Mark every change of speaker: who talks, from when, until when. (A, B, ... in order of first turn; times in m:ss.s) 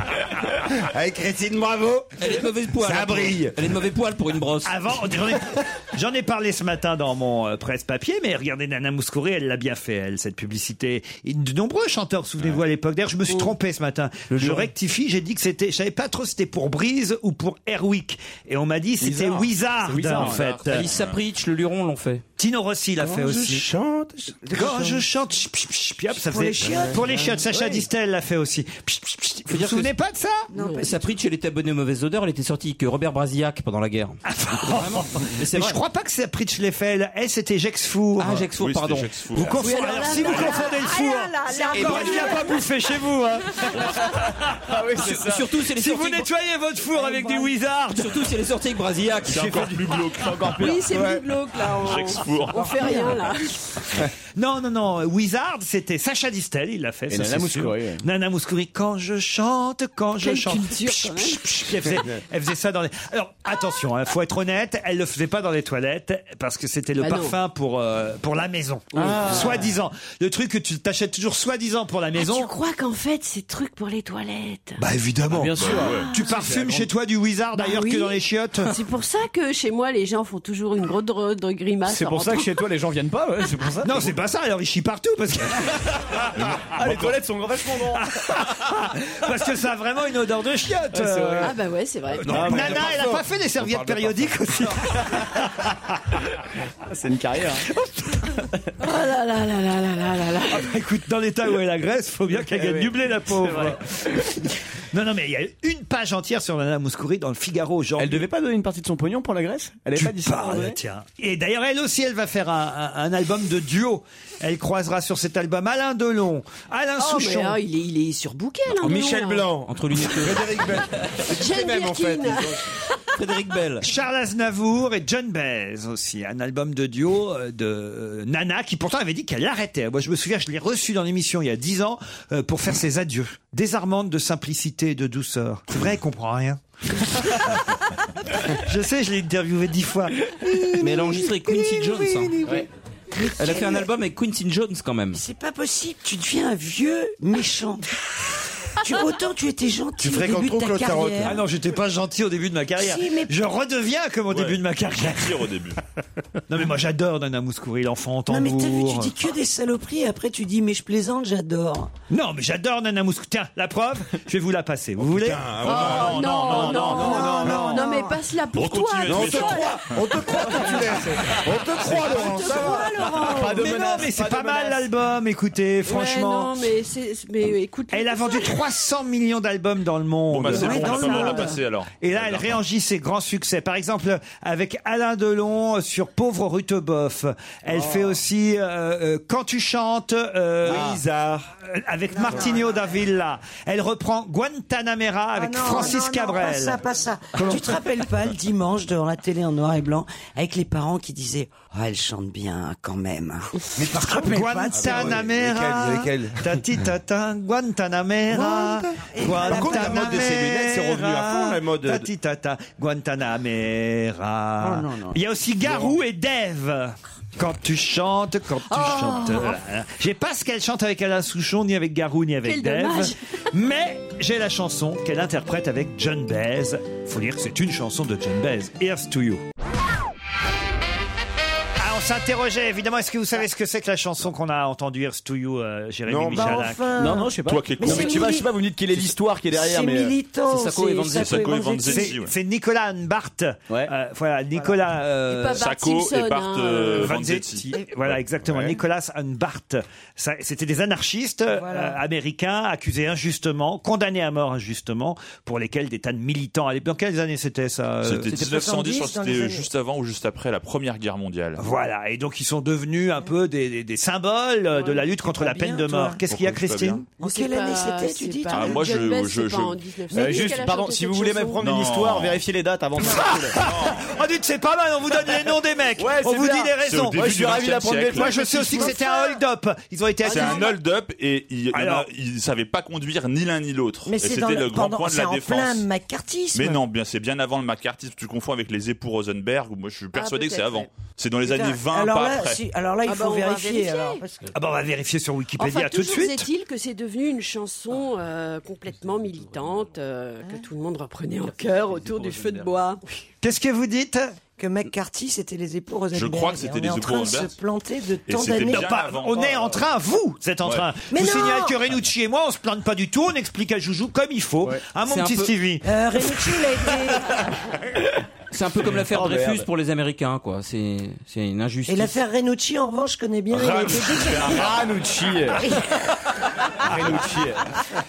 0:00.6-0:03.7 A
0:02.2-0:05.1 B
0:04.6-0:20.9 C
0:14.3-0:14.7 B
0:19.0-0:20.5 D
0:20.0-0:21.2 E
0:20.7-0:22.2 B
0:22.4-0:23.6 C
0:23.0-0:24.7 A
0:24.4-0:25.0 F
0:24.5-0:30.5 C
0:26.1-0:27.4 F
0:27.5-0:27.8 D
0:29.5-0:29.9 B
0:30.5-0:31.1 F
0:30.5-0:30.9 G
0:30.8-0:35.8 B
0:34.2-0:38.4 C
0:38.2-0:39.2 B
0:38.5-0:39.8 E
0:39.3-0:44.7 C
0:39.6-0:42.5 G
0:40.1-0:42.5 F
0:41.7-0:42.1 A
0:44.6-0:45.5 D
0:45.0-0:46.3 B
0:45.7-0:48.2 C
0:47.9-0:49.6 B
0:49.2-0:50.6 E
0:49.3-0:51.2 D
0:50.6-0:53.6 G
0:50.9-0:51.2 A
0:51.8-0:53.2 E
0:54.4-1:12.5 C
0:57.1-0:58.0 D
1:00.2-1:01.7 G
1:07.0-1:07.4 G
1:08.9-1:09.8 D
1:12.1-1:14.8 G
1:14.8-1:18.7 C
1:15.3-1:16.9 D
1:15.6-1:16.1 E
1:16.0-1:16.3 G
1:17.6-1:22.6 G
1:21.8-1:24.2 D
1:23.8-1:25.8 C
1:26.4-1:27.2 E
1:26.6-1:28.4 D
1:27.9-1:31.5 C
1:30.9-1:31.6 D
1:31.4-1:32.4 G
1:32.1-1:36.2 C
1:32.2-1:34.4 A
1:32.3-1:33.1 D
1:36.8-1:37.7 D
1:37.8-1:38.2 C
1:38.8-1:40.7 G
1:40.5-1:48.2 C
1:42.4-1:44.3 D
1:48.0-1:50.8 D
1:50.0-1:57.6 C
1:57.0-1:59.5 G
1:58.7-2:02.7 A
1:59.7-2:00.6 B
2:01.2-2:03.0 G
2:03.2-2:03.8 B
2:03.8-2:17.6 C
2:18.4-2:20.3 C
2:20.4-2:23.9 F
2:20.7-2:22.4 B
2:23.4-2:25.2 B
2:25.1-2:28.0 F
2:28.7-2:31.4 F
2:30.0-2:31.4 A
2:31.2-2:35.5 C
2:32.8-2:33.3 F
2:34.3-2:35.8 E
2:36.5-2:39.1 C
2:38.3-2:41.9 F
2:42.1-2:46.9 C
2:45.0-2:46.4 A
2:45.6-2:49.9 G
2:45.7-2:47.2 E
2:46.9-2:48.2 F
2:47.1-2:47.7 D
2:47.3-2:47.8 A
2:48.5-2:50.2 E
2:49.1-2:53.0 A
2:50.4-2:50.9 G
2:51.8-2:53.9 G
2:51.9-2:54.9 D
2:53.4-2:56.7 C
2:55.8-2:58.6 G
2:57.9-3:11.0 C
3:00.3-3:02.6 E
3:00.5-3:01.6 F
3:07.8-3:08.1 D
3:10.6-3:11.5 A
3:11.6-3:16.8 C
3:12.1-3:12.8 F
3:15.3-3:25.2 F
3:17.4-3:17.6 C
3:23.8-3:26.4 A
3:23.9-3:49.4 C
3:28.3-3:32.1 A
3:28.9-3:30.5 F
3:34.6-3:35.1 A
3:35.6-3:36.0 A
3:38.8-3:39.5 F
3:42.4-3:43.2 G
3:51.8-3:57.0 C
3:56.1-3:56.7 A
3:56.3-4:02.1 F
3:56.9-4:00.2 D
3:57.4-3:58.4 E
4:00.4-4:01.7 B
4:01.0-4:02.3 E
4:01.9-4:05.6 C
4:05.3-4:07.2 G
4:05.6-4:08.8 E
4:06.9-4:18.3 C
4:11.5-4:12.0 F
4:18.0-4:21.6 E
4:18.2-4:19.7 F
4:21.6-4:27.0 C
4:24.8-4:26.2 F
4:26.2-4:27.1 E
4:27.1-4:31.6 G
4:27.2-4:28.8 F
4:28.5-4:29.8 E
4:30.1-4:33.6 D
4:31.6-4:32.4 E
4:33.0-4:37.3 C
4:33.5-4:34.1 E
4:36.0-4:38.9 D
4:36.8-4:38.3 E
4:38.1-4:40.8 C
4:38.8-4:39.1 F
4:39.0-4:39.4 G
4:40.2-4:40.7 G
4:40.2-4:45.8 E
4:41.7-4:42.1 C
4:44.0-4:46.8 F
4:46.5-4:52.6 E
4:50.1-4:50.9 G
4:51.4-4:54.5 F
4:53.0-4:54.2 G
4:54.5-4:56.5 C
4:55.6-5:03.0 G
5:03.4-5:04.4 C
5:04.6-5:08.9 F
5:06.1-5:07.5 E
5:08.3-5:09.8 E
5:08.6-5:15.8 C
5:10.6-5:10.9 E
5:11.1-5:11.8 F
5:15.0-5:15.5 B
5:15.8-5:17.4 F
5:18.5-5:22.2 B
5:18.8-5:19.7 D
5:21.9-5:24.7 F
5:23.5-5:24.4 C
5:24.3-5:24.9 A
5:24.5-5:25.7 D
5:25.6-5:25.9 F
5:26.8-5:27.7 D